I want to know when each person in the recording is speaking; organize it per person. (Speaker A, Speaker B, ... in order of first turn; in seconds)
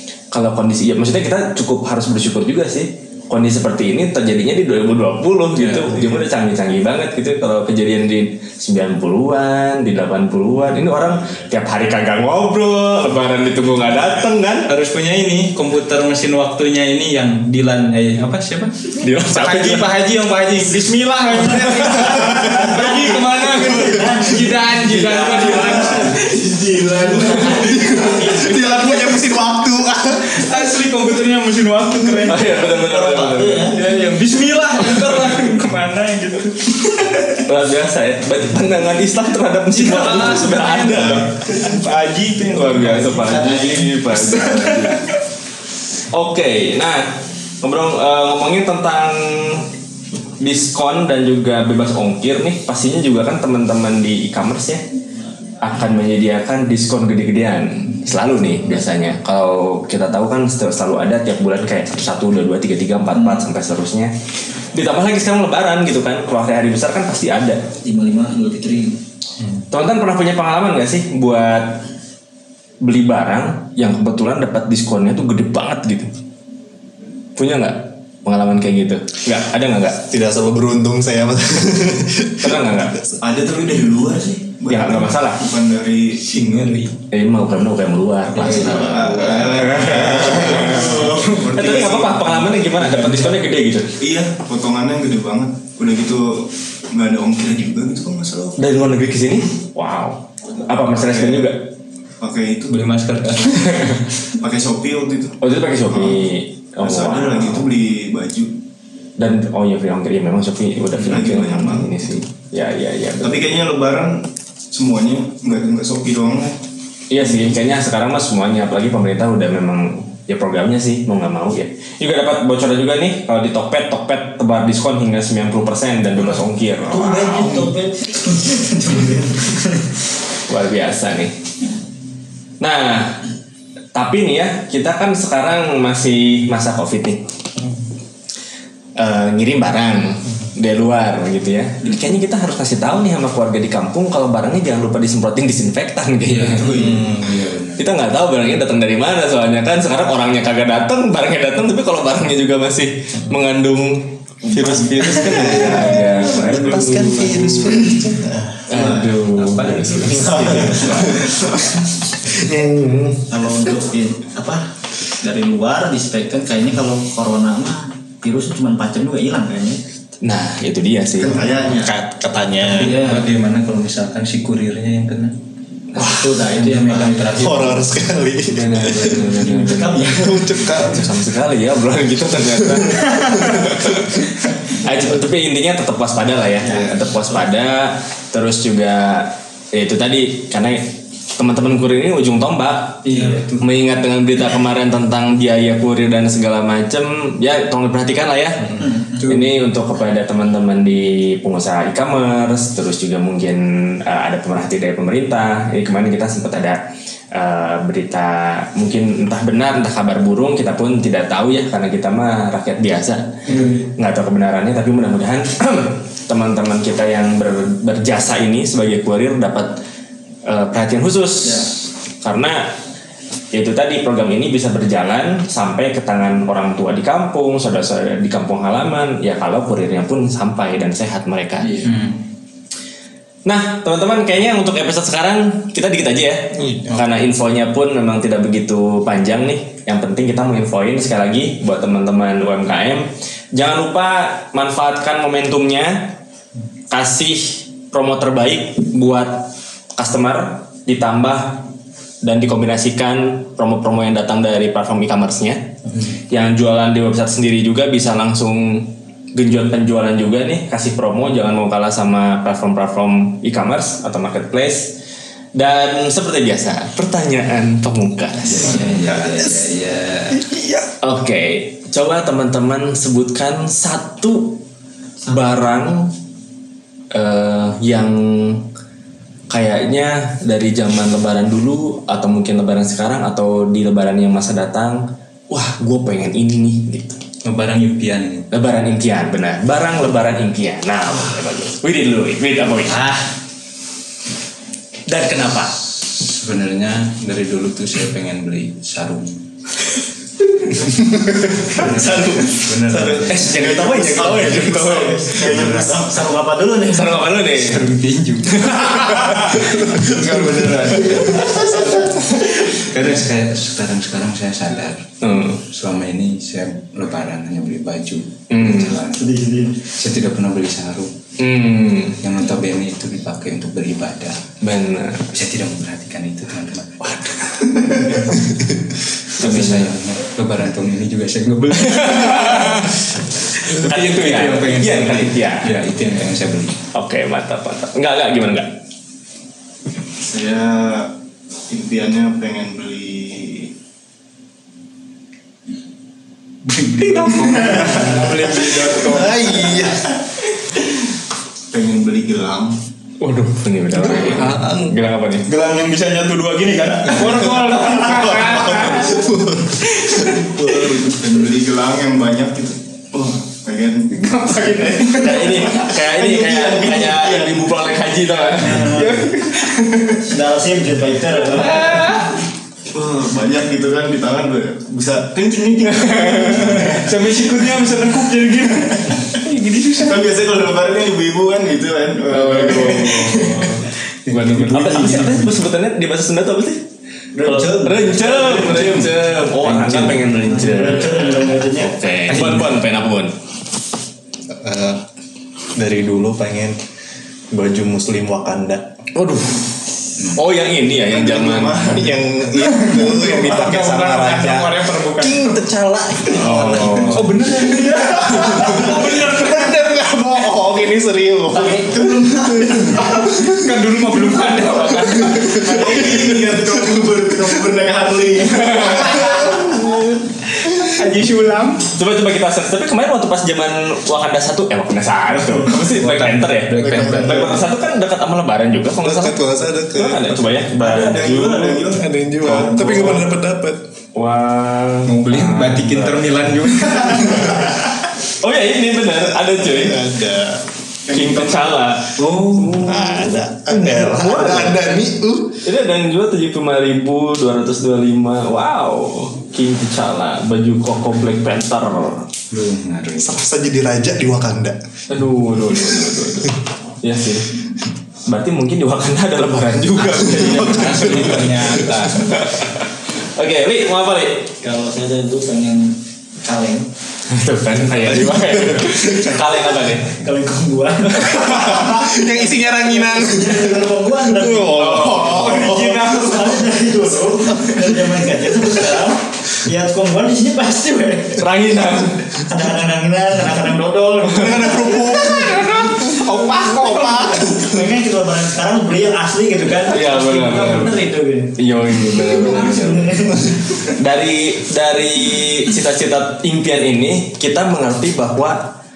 Speaker A: 0.3-14.7, 19.0-19.9, 32.3-33.7, 37.5-41.5, 42.5-45.0, 46.1-47.1, 47.6-49.7, 50.4-54.8, 55.6-64.1, 64.7-67.6, 69.7-71.8, 72.8-76.1, 77.4-80.0, 82.4-83.0, 84.7-85.5, 87.1-93.9, 98.6-101.6, 105.4-107.7, 109.2-113.5, 117.1-127.7, 130.5-131.3, 132.6-133.2, 133.9-137.2, 139.0-146.7, 147.8-157.9, 158.7-161.2, 170.2-171.4, 178.5-190.8, 191.4-206.8, 207.3-219.7, 220.5-221.7, 222.2-222.7, 223.5-231.9, 233.5-246.1, 246.9-251.7, 252.2-255.6, 256.3-264.9, 265.6-268.9, 271.0-274.6, 275.3-276.1, 277.1-278.7, 279.5-287.2, 288.5-293.1, 295.1-295.8, 301.7-305.8, 306.9-307.9, 308.5-311.3, 315.2-315.6, 318.5-319.0, 321.4-322.2, 324.6-325.2, 327.1-327.9, 329.4-330.0, 331.9-333.0, 333.6-335.8, 336.9-338.7, 353.2-355.4, 365.1-369.0, 376.1-376.8, 382.3-386.8, 387.4-393.3, 399.1-402.1, 406.3-407.4, 422.0-431.8, 432.7-433.3, 434.1-436.1, 438.4-440.0, 441.1-444.8, 445.6-452.3, 455.1-457.5, 458.3-464.5, 467.3-470.1, 474.7-475.4, 481.4-482.2, 489.9-491.0, 491.6-498.6
Speaker B: 5.8-6.2, 27.7-30.4, 80.1-82.8, 155.2-158.8, 160.1-161.5, 162.2-163.3, 171.8-173.1, 177.4-181.2, 182.7-182.9, 269.3-269.6, 270.5-270.8, 349.0-350.0, 354.2-354.9, 358.1-361.0, 394.5-395.0, 395.8-396.8, 397.5-398.8, 401.9-413.6, 415.1-416.0, 417.0-417.4, 418.8-420.1, 426.8-427.6, 429.0-430.7, 431.8-433.8, 439.6-440.6, 442.7-445.6, 453.2-454.8, 460.3-462.2, 467.9-469.4, 471.2-476.1, 484.3-487.6
Speaker C: 14.7-18.7, 19.3-29.2, 30.3-32.5, 33.5-37.4, 39.7-45.1, 86.3-86.8, 89.7-90.1, 91.0-91.5, 332.0-332.9, 333.7-335.3, 346.7-349.9, 354.0-354.8, 355.5-359.3, 360.2-361.0, 364.1-365.9, 368.8-370.1, 371.5-372.4, 376.3-380.3, 384.3-385.4, 403.3-405.6, 407.1-409.8, 412.8-417.1, 418.8-419.5, 420.7-421.9, 435.1-437.6, 475.1-476.6, 484.9-487.5
Speaker D: 22.4-24.4, 27.1-28.1, 32.6-33.8, 67.8-69.0, 126.9-129.9, 163.3-164.6, 165.2-169.8, 175.9-177.8, 179.1-180.4, 303.4-307.3, 311.0-312.2, 319.2-319.8, 368.6-369.3, 370.2-372.0, 387.4-389.0, 390.4-392.0, 464.6-466.9, 470.1-481.4, 482.4-485.0, 487.2-491.5, 492.1-493.6
Speaker E: 27.2-28.0, 83.2-86.9, 88.4-92.6, 94.0-98.9, 101.0-101.5, 102.2-102.9, 104.2-105.4, 105.9-106.2, 106.8-108.5, 111.0-111.9, 113.2-116.6, 146.5-147.1, 171.2-172.0, 303.7-304.0, 310.0-311.3, 340.1-341.1, 341.7-343.7, 347.6-348.3, 351.7-352.8, 360.6-364.2, 366.0-367.9, 372.9-377.5, 379.9-383.9, 401.0-403.6, 412.0-412.5, 415.5-419.4, 430.8-433.0, 441.1-441.8
Speaker F: 88.3-91.0, 92.8-93.4, 102.7-104.1, 146.2-147.8, 158.7-161.2, 172.6-175.4, 176.0-177.9, 193.1-193.7, 198.7-199.4, 231.6-232.2, 236.7-237.0, 268.4-270.5, 287.4-288.5, 296.0-299.4, 301.2-303.6, 305.3-306.1, 307.4-311.4, 312.7-315.1, 315.6-319.3, 320.0-321.1, 322.2-324.4, 325.3-328.8, 329.3-332.9, 334.3-336.8, 384.3-385.4, 389.6-390.2, 425.7-427.6, 452.5-453.4, 460.0-462.3